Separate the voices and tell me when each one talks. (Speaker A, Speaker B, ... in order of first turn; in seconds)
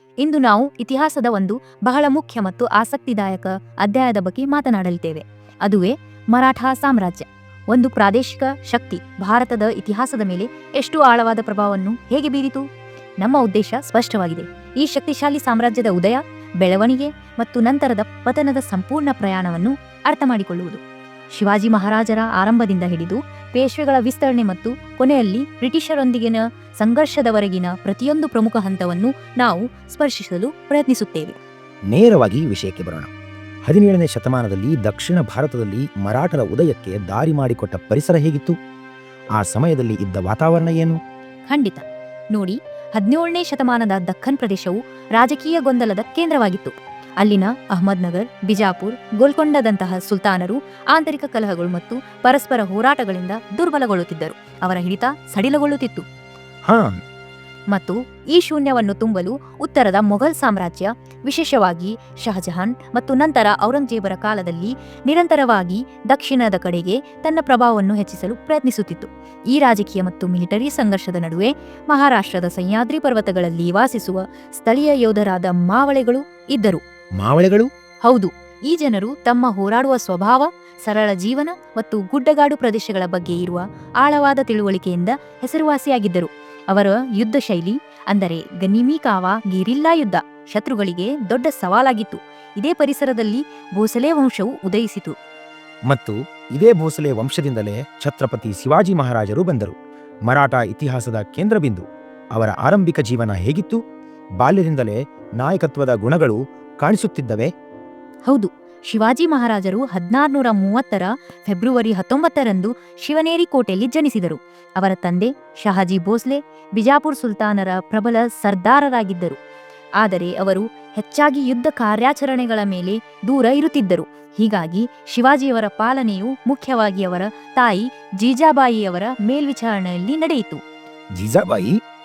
Speaker A: 0.2-12.6, 13.2-20.8, 21.4-31.4, 41.5-56.0, 57.7-76.8, 78.0-95.2, 108.3-119.4, 120.0-130.6
Speaker B: 31.9-33.1, 33.7-38.5, 39.4-41.0, 77.2-77.7, 95.9-99.8, 100.3-101.8, 102.3-103.8, 104.4-107.5, 131.2-131.7